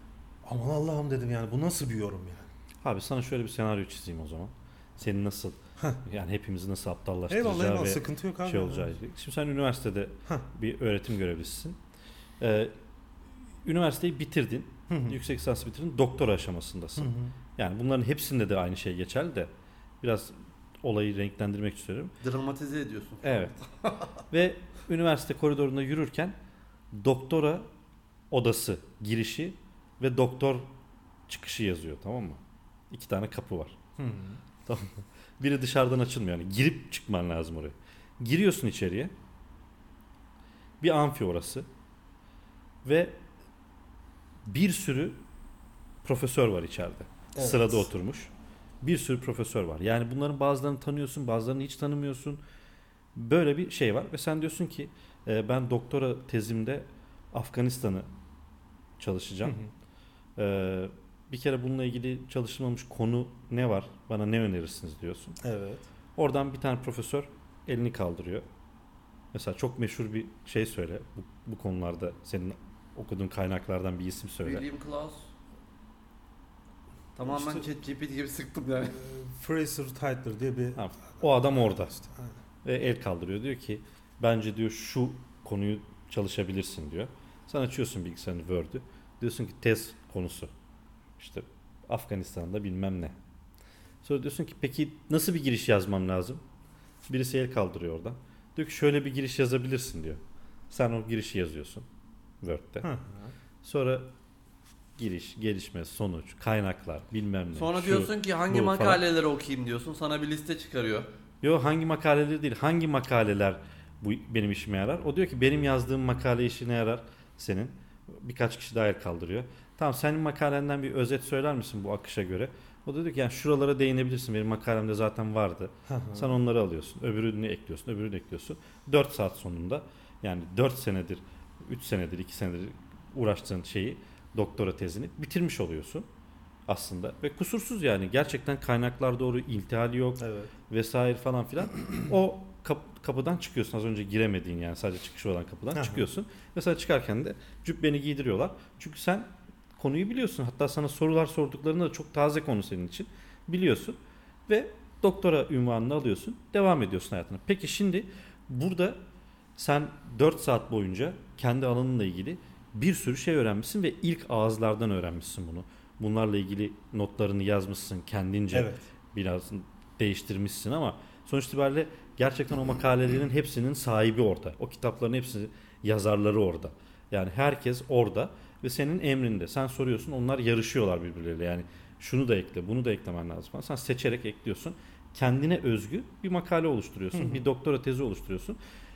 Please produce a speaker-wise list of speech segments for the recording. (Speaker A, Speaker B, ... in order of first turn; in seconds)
Speaker A: 0.4-2.5, 7.3-8.9, 14.9-15.2, 17.0-17.3, 34.0-34.4, 47.3-47.9, 59.4-59.7, 65.4-65.8, 77.3-77.6, 79.0-80.8, 81.5-82.3, 102.8-103.3, 125.9-126.3, 140.2-140.5, 145.7-146.1, 168.5-168.8, 187.1-187.4
Speaker B: 2.8-11.8, 12.4-12.7, 13.6-22.1, 23.2-23.5, 24.3-26.3, 26.9-27.7, 28.3-30.7, 31.3-33.7, 34.6-39.1, 40.8-41.6, 42.8-43.2, 44.5-45.2, 46.0-48.3, 48.8-52.4, 53.1-58.0, 59.0-59.6, 60.4-65.4, 66.2-68.4, 69.3-74.6, 80.8-82.0, 82.6-90.5, 91.2-93.2, 94.0-96.4, 97.1-101.8, 102.4-102.9, 103.6-104.1, 105.0-109.0, 111.4-136.1, 136.7-154.0, 154.5-159.0, 159.6-188.6
Speaker C: 22.2-24.1, 74.4-75.3, 77.1-79.0, 107.5-111.1